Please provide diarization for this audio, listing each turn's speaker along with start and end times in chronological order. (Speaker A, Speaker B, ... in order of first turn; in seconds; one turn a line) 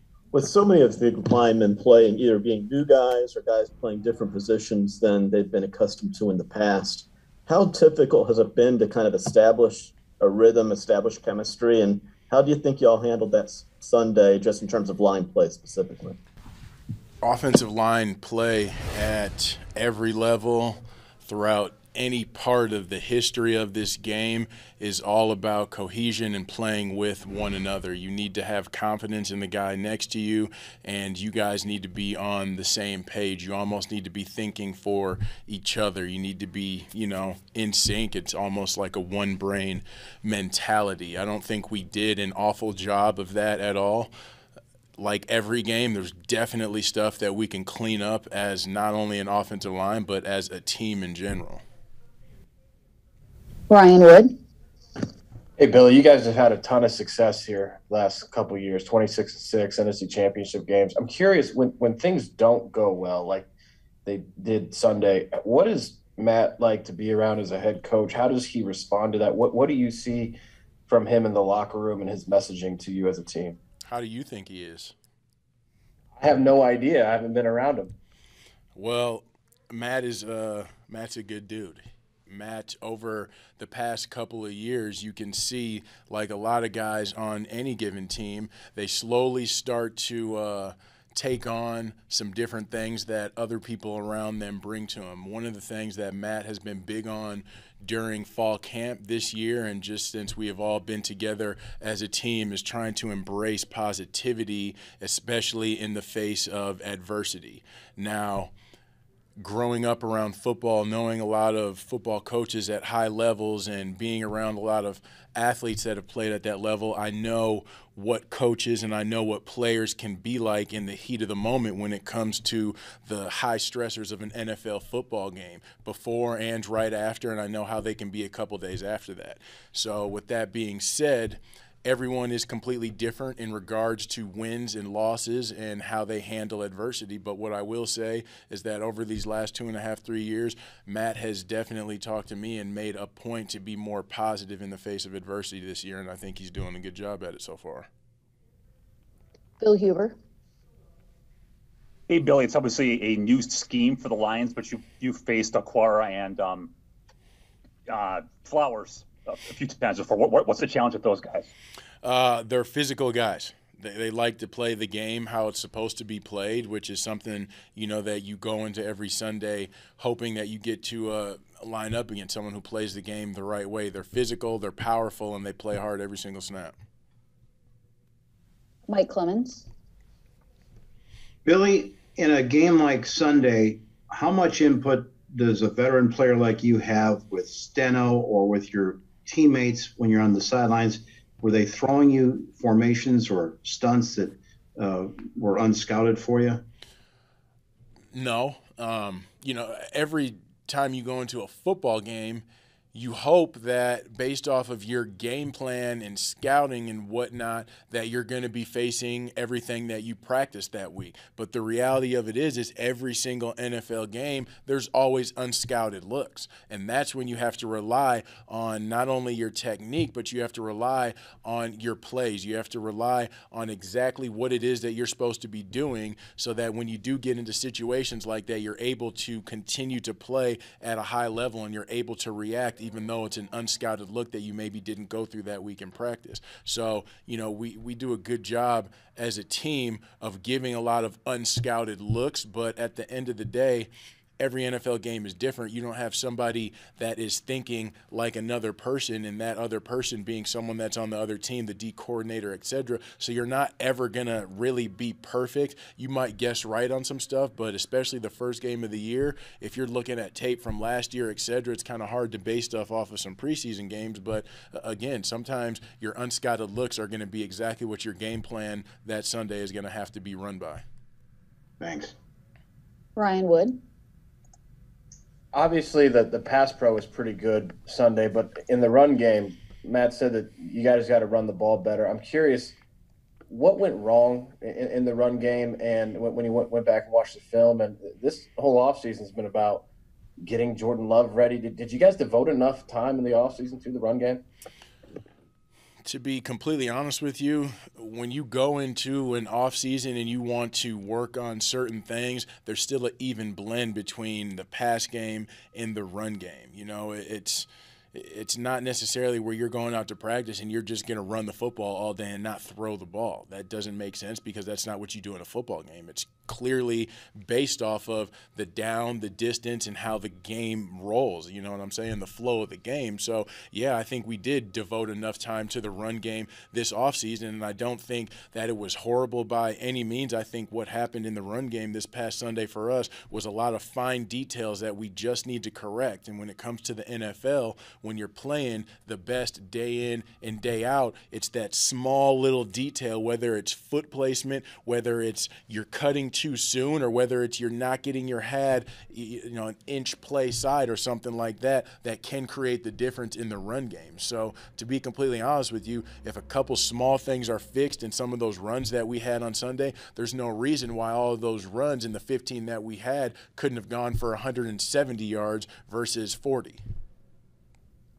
Speaker A: 0.3-16.2
Speaker B: 17.2-44.1
Speaker B: 45.0-51.6
Speaker C: 53.7-54.3
Speaker D: 55.6-63.5
Speaker D: 64.0-70.4
Speaker D: 70.9-73.6
Speaker B: 73.8-74.9
Speaker D: 76.2-77.9
Speaker B: 78.7-108.5
Speaker B: 109.4-147.9
Speaker C: 149.6-150.1
Speaker E: 152.1-156.7
Speaker E: 157.9-161.5
Speaker B: 162.0-176.7
Speaker C: 178.9-179.7
Speaker F: 181.4-196.6
Speaker B: 198.1-270.8
Speaker F: 271.8-272.1
Speaker C: 273.1-273.8
Speaker D: 275.5-282.8
Speaker D: 283.5-289.8
Speaker D: 290.4-294.4
Speaker B: 296.0-366.8